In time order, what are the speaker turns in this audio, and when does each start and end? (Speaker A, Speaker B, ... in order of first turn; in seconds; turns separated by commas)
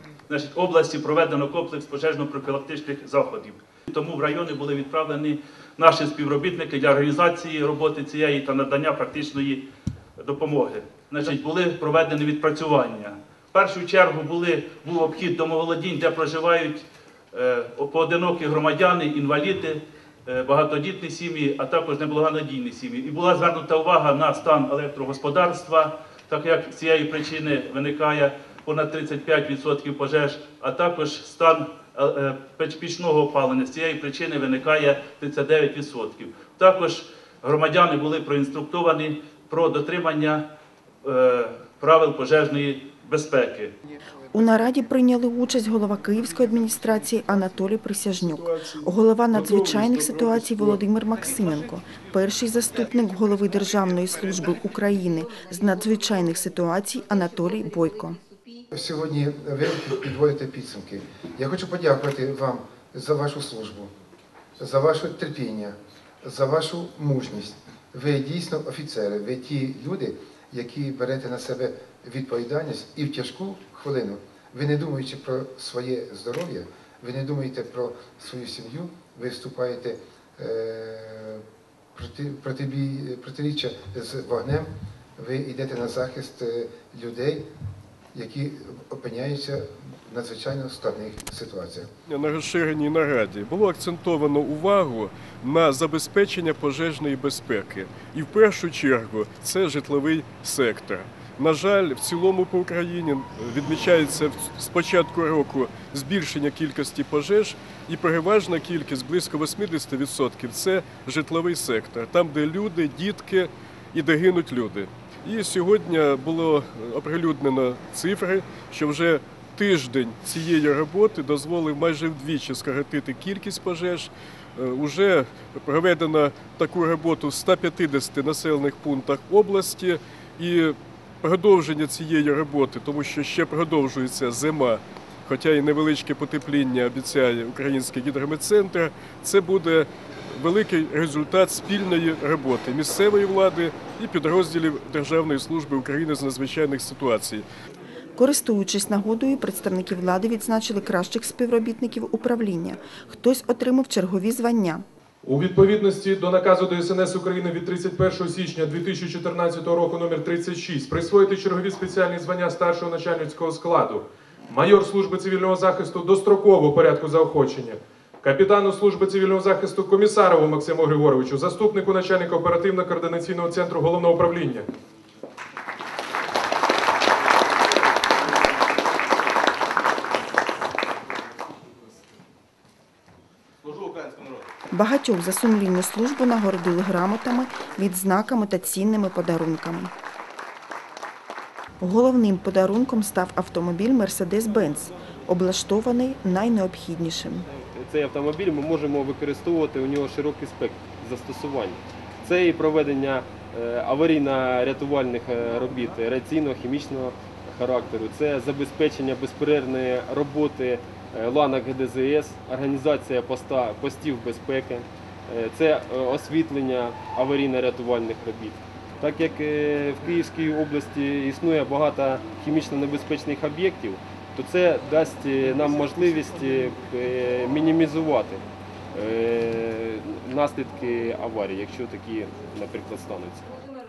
Speaker A: 0.3-9.6, Speaker A: 10.2-40.4, Speaker A: 41.0-43.7, Speaker B: 44.3-58.2, Speaker C: 48.4-50.6, Speaker D: 58.7-63.9, Speaker D: 64.6-81.4, Speaker D: 81.9-87.5, Speaker D: 88.1-91.9, Speaker C: 92.1-147.4, Speaker B: 148.2-154.8, Speaker E: 155.2-174.7, Speaker B: 184.7-189.9, Speaker B: 191.8-197.5, Speaker F: 197.6-233.5